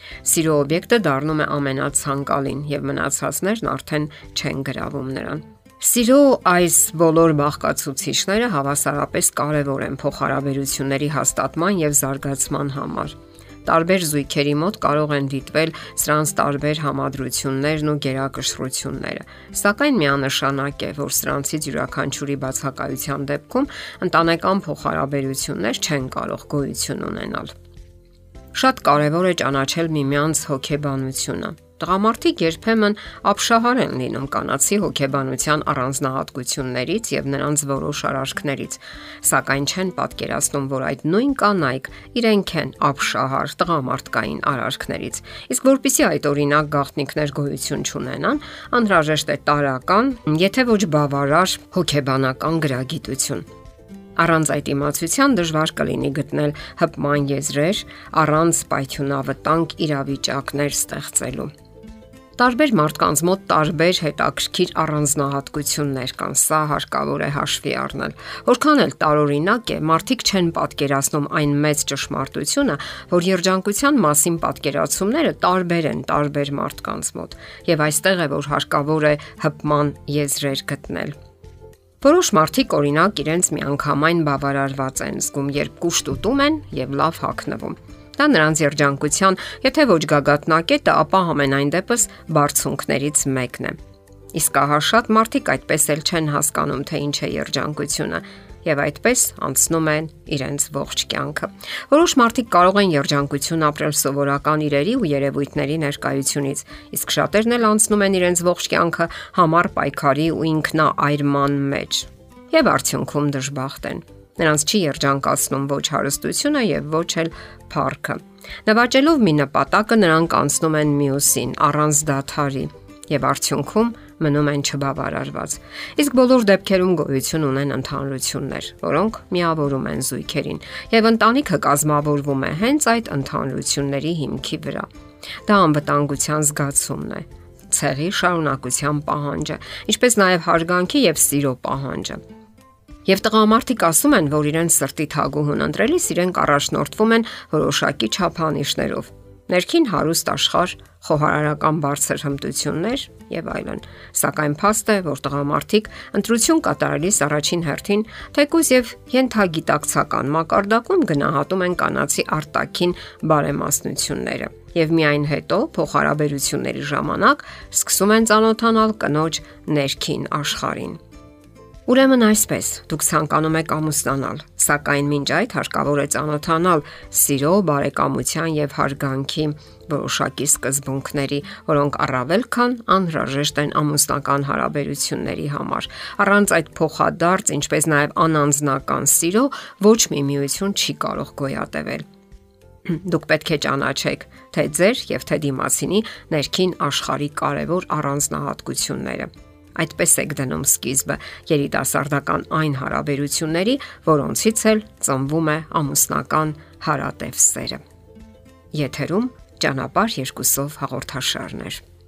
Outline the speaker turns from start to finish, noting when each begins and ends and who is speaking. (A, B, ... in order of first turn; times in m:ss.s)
0:00.2-0:27.5 A
0:28.5-0:53.4 A
0:54.2-1:01.5 A
1:02.4-1:21.1 A
1:22.0-1:33.8 A
1:34.3-2:14.9 A
2:15.4-2:22.2 A
2:23.0-2:51.0 A
2:51.9-3:12.0 A
3:12.8-3:27.8 A
3:28.7-3:31.8 A